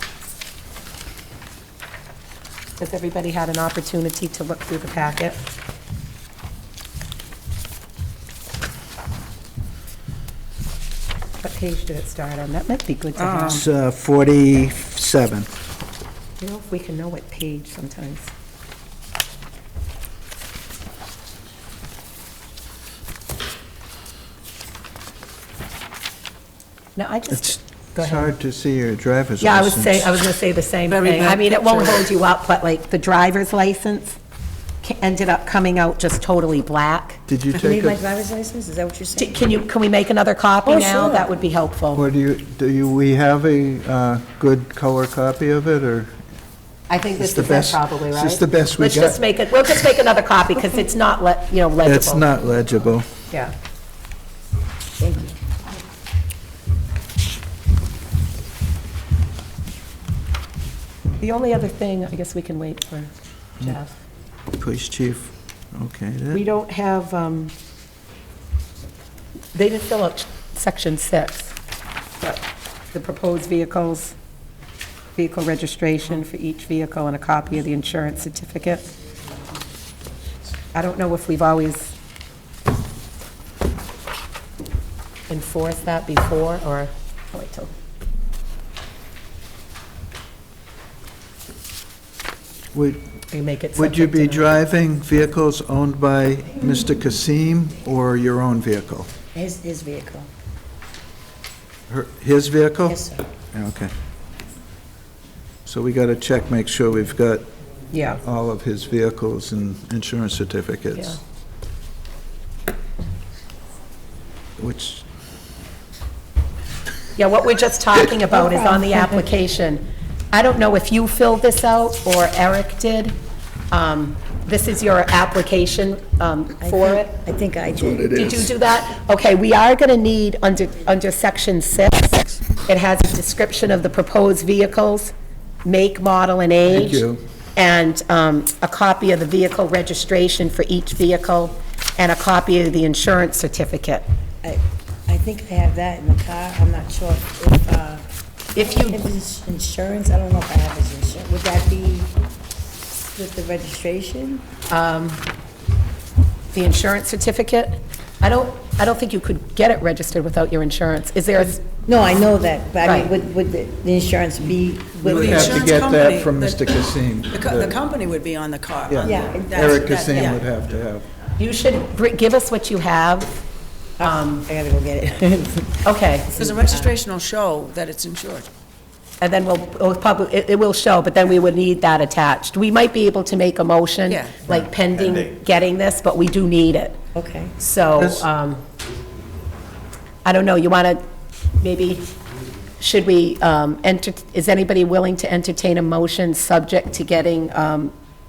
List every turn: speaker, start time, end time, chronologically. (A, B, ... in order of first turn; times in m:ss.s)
0:02.8-0:05.4 A
0:11.4-0:13.6 A
0:13.2-0:13.4 B
0:13.4-0:15.5 C
0:16.4-0:18.3 A
0:27.0-0:28.3 A
0:27.3-0:30.2 C
0:29.4-0:34.2 A
0:34.8-0:37.2 A
0:37.3-0:38.0 C
0:37.5-0:39.5 D
0:39.2-0:42.0 A
0:40.6-0:41.3 D
0:41.9-0:46.2 C
0:46.9-0:52.3 A
0:47.2-0:49.2 C
0:51.8-0:53.1 C
0:55.0-0:55.4 D
1:01.2-1:04.0 A
1:04.6-1:06.4 C
1:06.3-1:07.5 A
1:09.5-1:11.6 A
1:12.2-1:14.2 A
1:15.2-1:18.9 A
1:20.7-1:21.9 A
1:25.3-1:27.7 A
1:32.7-1:33.1 C
1:33.3-1:34.6 A
1:33.8-1:39.1 C
1:39.3-1:40.3 D
1:41.9-1:43.0 C
1:42.9-1:43.2 D
1:43.5-1:43.9 C
1:45.7-1:47.5 C
1:47.9-1:48.2 A
1:48.2-1:51.2 C
1:54.6-1:55.0 C
1:57.2-2:03.2 A
1:58.3-1:59.3 D
2:03.7-2:07.2 A
2:06.6-2:08.4 D
2:07.8-2:08.5 C
2:08.1-2:15.1 A
2:15.6-2:17.0 A
2:16.7-2:17.2 C
2:17.6-2:24.0 A
2:24.4-2:28.0 D
2:28.6-2:29.1 A
2:28.6-2:32.1 D
2:32.9-2:34.5 D
2:34.7-2:35.2 A
2:36.5-2:41.8 A
2:41.9-2:45.6 D
2:42.8-2:43.1 A
2:45.0-2:47.8 C
2:45.1-2:46.7 B
2:47.3-2:50.3 B
2:48.9-2:51.1 C
2:49.0-2:50.4 D
2:51.4-2:53.4 A
2:54.0-2:57.0 D
2:54.0-2:54.4 A
2:55.8-2:56.3 A
2:56.4-2:58.5 B
2:59.2-3:07.0 A
3:04.1-3:04.4 B
3:07.1-3:07.6 D
3:07.6-3:08.6 A
3:08.0-3:08.3 C
3:10.2-3:11.0 A
3:11.6-3:12.1 A
3:12.8-3:17.9 A